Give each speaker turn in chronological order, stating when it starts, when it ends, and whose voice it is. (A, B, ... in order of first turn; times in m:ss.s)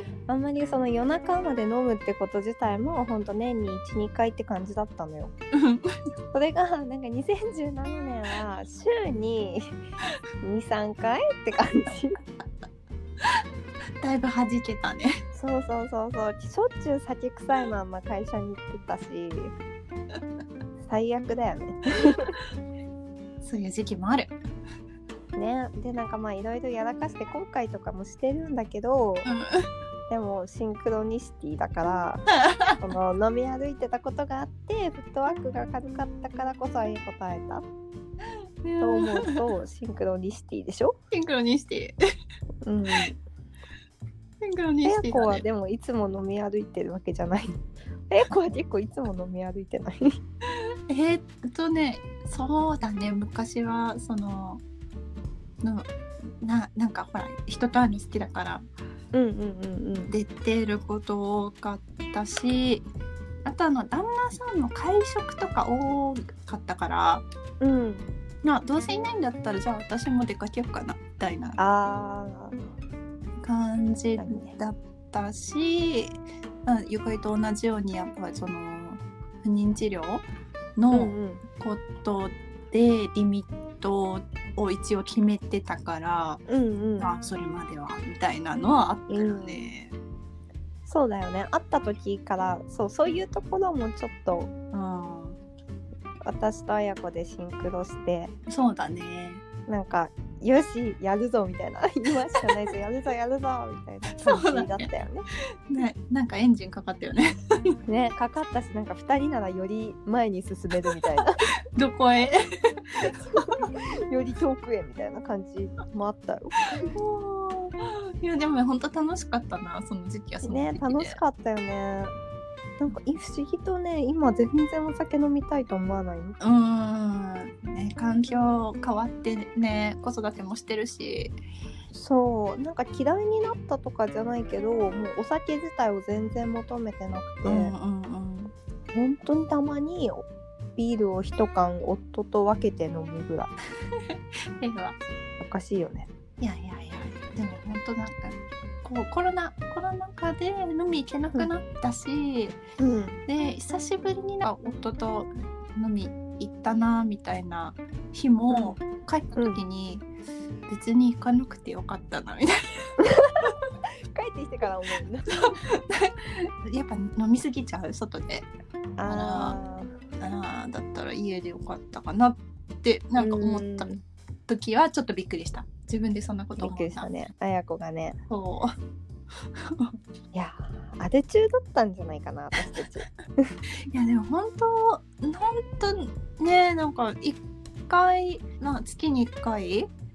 0:00.3-0:05.3 A
0:05.5-0:06.0 B
0:06.3-0:09.7 A
0:10.4-0:12.2 A
0:14.0-0:15.2 B
0:15.3-0:19.5 A
0:20.8-0:22.4 A
0:23.4-0:24.3 B
0:25.4-0:29.3 A
0:29.2-0:29.7 B
0:30.1-0:32.3 A
0:32.3-0:32.8 B
0:32.8-0:37.6 A
0:38.6-0:39.3 B
0:38.8-0:41.0 A
0:41.1-0:42.0 B
0:42.6-0:43.2 A
0:44.4-0:45.4 B
0:44.8-0:47.6 A
0:48.1-0:50.2 A
0:50.5-0:54.6 B
0:55.6-0:55.9 B
0:56.4-0:58.7 B
0:59.1-1:00.1 A
1:00.1-1:02.9 B
1:03.4-1:07.2 B
1:07.6-1:08.1 A
1:08.4-1:11.6 B
1:11.6-1:12.6 A
1:13.4-1:20.3 B
1:14.2-1:14.5 A
1:20.8-1:26.4 B
1:20.9-1:21.4 A
1:26.5-1:27.1 A
1:27.0-1:30.0 B
1:29.1-1:29.6 A
1:30.9-1:34.5 A
1:34.7-1:35.4 B
1:36.2-1:38.3 A
1:38.5-1:39.4 B
1:39.7-1:45.3 A
1:44.2-1:44.9 B
1:45.7-1:47.8 B
1:47.9-1:51.5 A
1:51.8-1:53.6 B
1:53.0-1:56.9 A
1:56.9-2:01.2 B
2:00.4-2:02.1 A
2:02.8-2:06.4 A
2:06.4-2:11.4 B
2:11.9-2:17.7 A
2:17.4-2:18.5 B
2:18.9-2:23.5 A
2:24.0-2:25.0 B
2:25.4-2:26.1 A
2:26.4-2:32.6 B
2:32.8-2:33.2 A
2:33.3-2:40.1 B
2:38.5-2:38.8 A
2:40.7-2:42.9 B
2:43.0-2:43.5 A
2:44.2-2:45.6 A
2:45.3-2:48.5 B
2:49.0-2:49.9 A
2:49.1-2:49.6 B
2:50.2-2:53.9 B
2:53.2-2:54.0 A
2:54.5-2:57.1 B
2:56.6-2:58.2 A
2:58.3-2:58.8 B
2:59.6-3:00.0 B
3:00.3-3:03.6 A
3:03.8-3:09.9 B